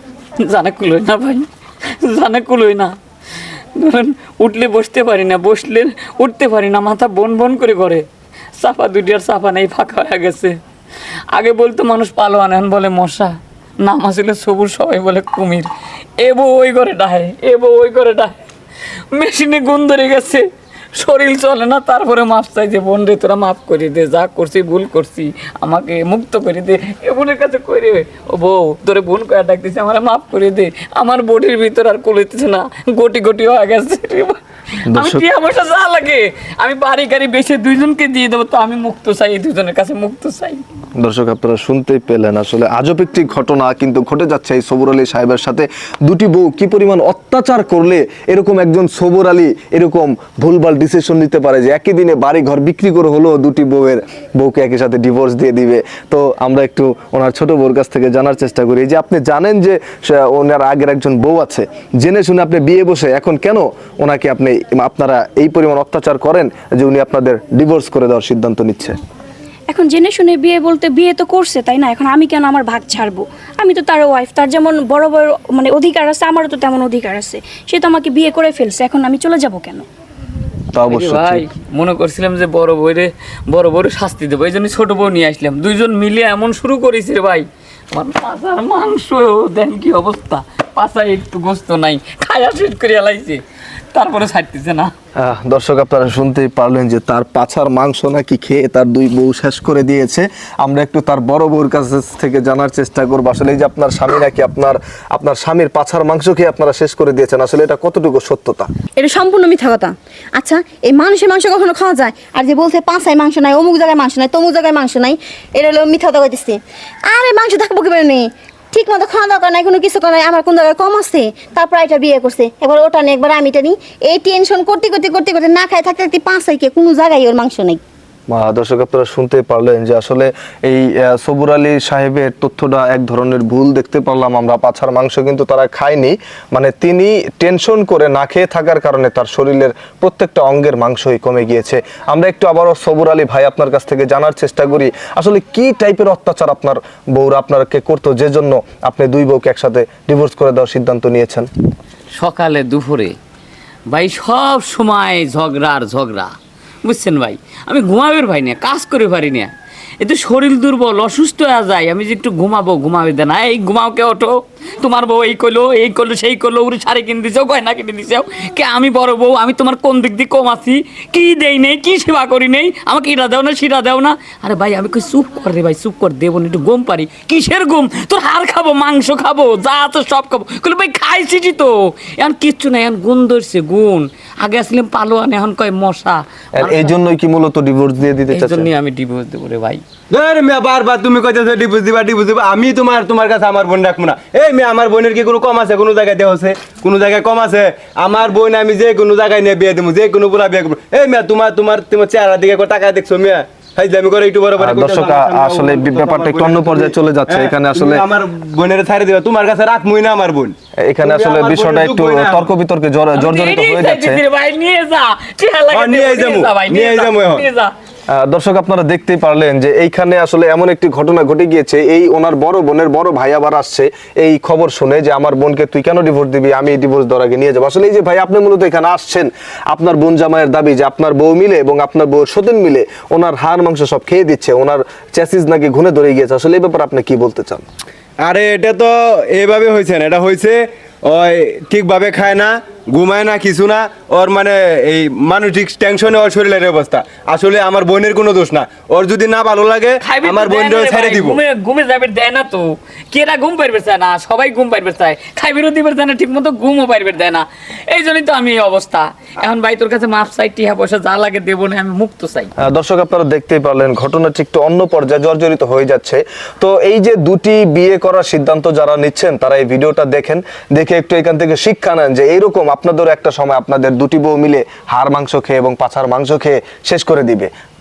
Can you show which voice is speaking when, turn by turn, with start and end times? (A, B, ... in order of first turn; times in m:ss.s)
0:00.4-0:01.5 A
0:02.0-0:03.0 A
0:03.8-0:08.0 A
0:08.6-0:10.6 A
0:11.3-0:18.4 A
0:19.1-0:40.6 A
0:34.9-0:35.2 B
0:41.0-1:09.0 B
1:09.7-1:19.8 C
1:20.7-1:21.4 B
1:20.9-1:33.4 A
1:33.9-1:34.9 A
1:35.2-1:48.7 B
1:48.9-2:07.8 D
2:08.3-2:31.5 B
2:32.1-2:33.2 A
2:33.9-3:06.9 A
3:06.6-3:08.7 B
3:08.3-3:09.8 A
3:10.1-3:32.5 E
3:24.6-3:28.0 B
3:30.8-3:34.2 B
3:33.1-3:37.7 A
3:35.7-3:37.5 E
3:38.1-3:57.6 B
3:58.2-4:11.4 E
4:10.0-4:22.5 A
4:22.6-4:37.5 B